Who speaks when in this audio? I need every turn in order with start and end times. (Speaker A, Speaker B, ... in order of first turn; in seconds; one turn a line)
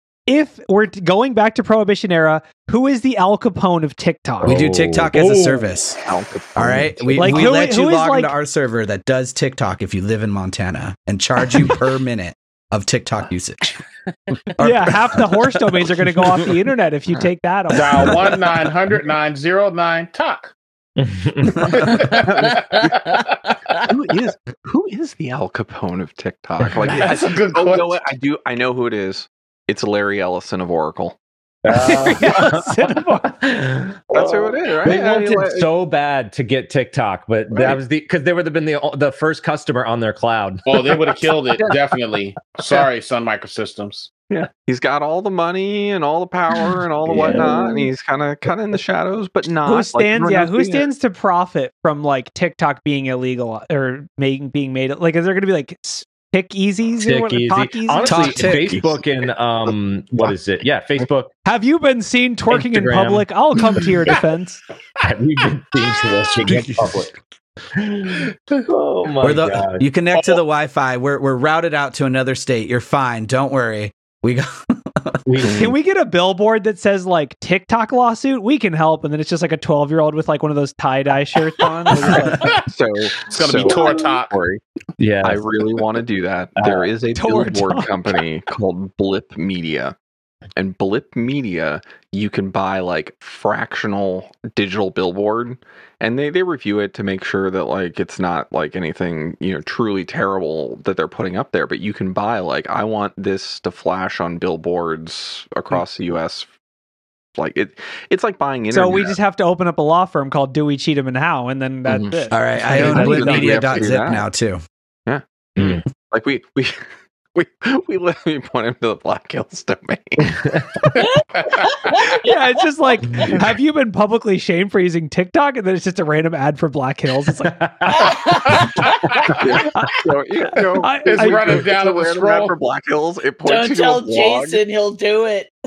Speaker A: 0.3-4.5
Speaker B: 4.4-5.1
Speaker C: 4.4-6.0
Speaker D: 5.1-5.6
Speaker E: 6.0-7.5
Speaker C: 6.5-13.8
Speaker A: 7.2-8.3
Speaker C: 14.6-16.3
Speaker A: 14.6-18.1
Speaker D: 17.7-20.5
Speaker B: 21.0-22.2
Speaker D: 21.6-23.2
Speaker F: 22.2-23.8
Speaker E: 22.3-22.9
Speaker E: 23.8-31.2
Speaker D: 26.9-28.0
Speaker B: 31.6-41.4
Speaker A: 31.7-33.3
Speaker E: 34.1-35.7
Speaker E: 37.5-37.8
Speaker D: 40.6-44.1
Speaker E: 44.3-50.9
Speaker B: 47.0-47.8
Speaker D: 47.2-47.5
Speaker A: 49.6-58.4
Speaker B: 57.0-61.3
Speaker C: 58.0-59.0
Speaker E: 58.5-58.9
Speaker A: 61.4-64.6
Speaker B: 62.5-63.2
Speaker B: 63.8-64.2
Speaker B: 65.0-67.1
Speaker B: 67.8-69.8
Speaker D: 68.1-68.7
Speaker C: 69.2-75.2
Speaker B: 75.2-75.8
Speaker E: 75.4-75.7
Speaker A: 75.5-82.4
Speaker E: 82.1-84.6
Speaker D: 82.3-82.7
Speaker D: 83.2-84.3
Speaker B: 83.5-84.0
Speaker B: 85.0-85.5
Speaker E: 85.2-89.9
Speaker B: 86.6-86.9
Speaker A: 87.1-87.9
Speaker E: 90.5-106.5
Speaker E: 107.3-109.2
Speaker A: 108.7-113.5
Speaker E: 111.8-114.3
Speaker C: 112.3-114.6
Speaker E: 115.1-116.8
Speaker B: 115.5-115.8
Speaker E: 117.3-120.4
Speaker B: 120.2-120.9
Speaker D: 121.1-121.7
Speaker A: 122.2-127.5
Speaker B: 123.0-123.4
Speaker B: 127.4-128.2
Speaker F: 128.0-128.6
Speaker D: 128.5-129.7
Speaker B: 129.0-129.4
Speaker E: 129.3-134.6
Speaker A: 129.7-130.0
Speaker A: 130.8-131.7
Speaker D: 131.0-132.5
Speaker F: 133.4-135.5